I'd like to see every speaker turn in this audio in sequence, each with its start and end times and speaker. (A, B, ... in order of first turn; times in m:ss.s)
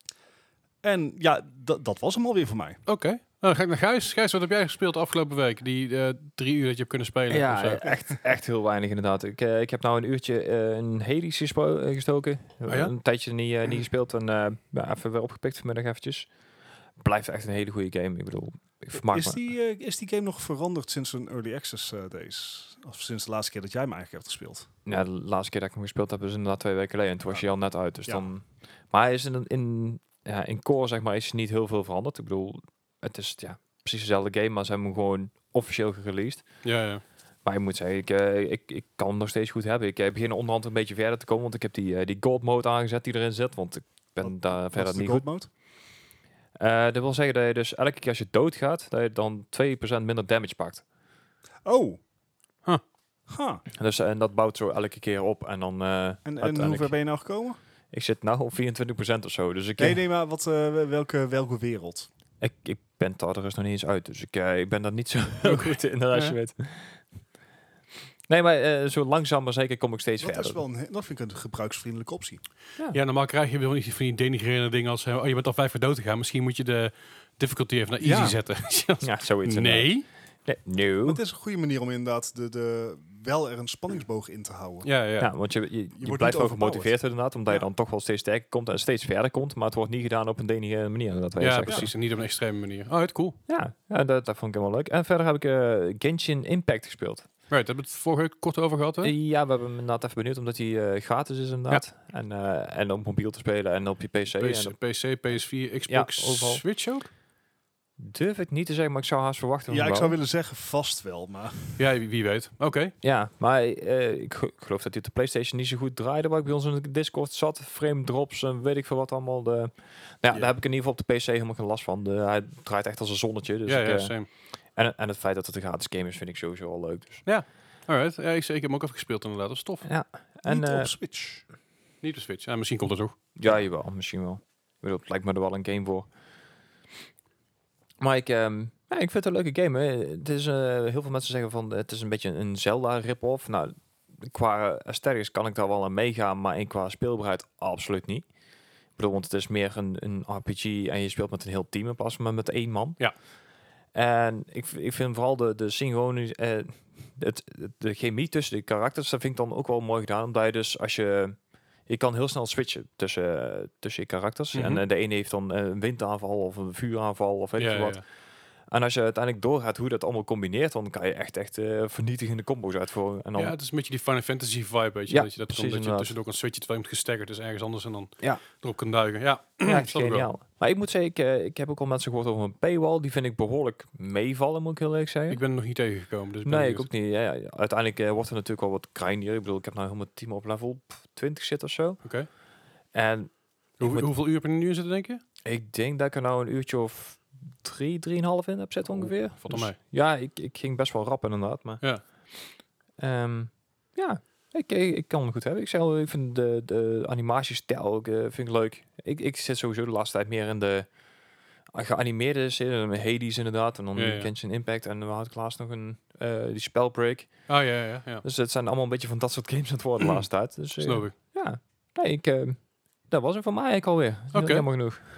0:00.8-0:02.8 A
0:02.8-0:07.8 B
0:07.3-0:16.3 C
0:07.8-0:08.2 A
0:12.7-0:12.9 B
0:17.0-0:19.4 C
0:19.0-0:24.7 A
0:24.8-0:36.4 C
0:36.6-0:37.0 B
0:37.4-0:45.2 C
0:44.2-0:45.5 A
0:46.6-0:50.8 C
0:51.6-0:52.0 A
0:53.3-0:53.6 A
0:53.7-0:56.9 C
0:56.2-0:57.6 A
0:57.9-1:00.0 C
0:59.8-1:02.1 A
1:02.4-1:07.0 C
1:08.3-1:10.6 C
1:10.2-1:12.4 A
1:12.9-1:20.0 B
1:18.0-1:18.4 A
1:19.0-1:19.9 C
1:20.4-1:21.2 C
1:21.0-1:24.9 A
1:24.8-1:25.3 B
1:25.2-1:31.9 C
1:26.0-1:27.0 A
1:31.4-1:33.4 B
1:33.5-1:37.3 C
1:37.5-1:39.1 B
1:39.0-1:44.8 C
1:44.4-1:47.1 B
1:45.9-1:46.6 C
1:48.0-1:50.2 C
1:49.7-1:51.8 A
1:51.8-1:52.9 B
1:53.0-2:04.2 C
2:03.6-2:04.3 B
2:04.7-2:07.2 C
2:07.2-2:09.8 B
2:09.8-2:10.9 C
2:10.4-2:11.4 A
2:12.0-2:13.2 B
2:13.4-2:16.1 C
2:18.0-2:28.2 C
2:29.0-2:33.0 C
2:33.9-2:48.0 C
2:44.5-2:44.8 B
2:47.6-2:48.0 B
2:48.7-2:53.5 C
2:53.4-3:00.3 B
2:55.1-2:56.1 C
2:59.6-3:05.4 C
3:05.3-3:06.9 B
3:06.4-3:12.0 C
3:12.0-3:12.3 B
3:12.9-3:14.1 C
3:13.8-3:15.2 B
3:15.4-3:21.8 C
3:18.9-3:19.8 B
3:23.0-3:30.9 C
3:31.7-3:37.4 C
3:34.0-3:34.3 B
3:37.5-3:38.2 B
3:38.2-3:45.0 C
3:40.8-3:41.1 B
3:44.3-3:44.6 B